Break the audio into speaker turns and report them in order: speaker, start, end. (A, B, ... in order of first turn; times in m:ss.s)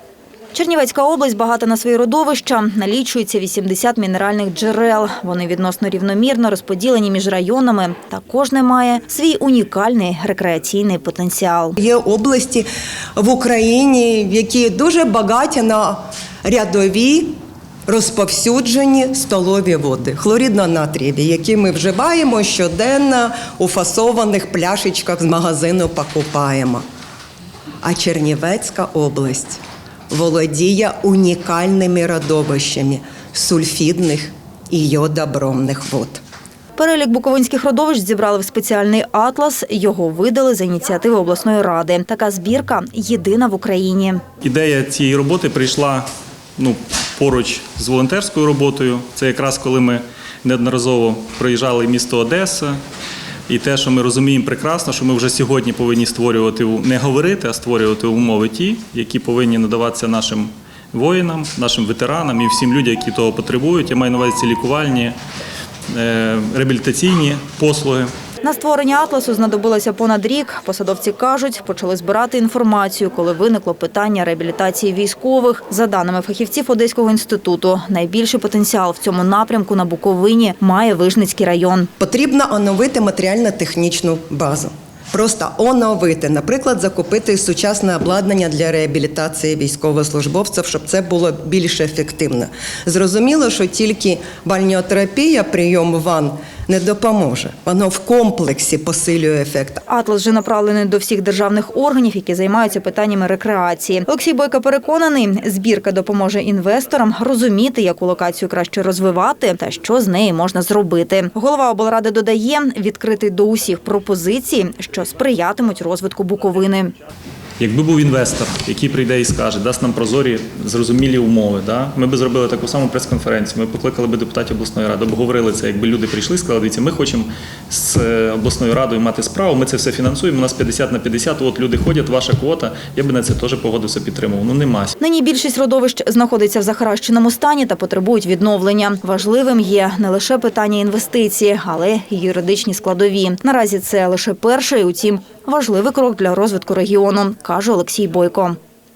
0:00.5-0:11.8 A
0:11.8-0:26.8 B
0:27.8-0:29.6 B
0:30.1-0:36.2 B
0:36.8-0:44.2 A
0:44.4-0:46.1 C
0:46.6-0:52.8 C
0:53.5-1:05.2 C
1:05.9-1:08.1 C
1:08.4-1:21.9 A
1:22.0-1:39.8 B
1:39.9-1:56.9 A
1:57.6-2:15.0 C
2:15.0-2:28.6 A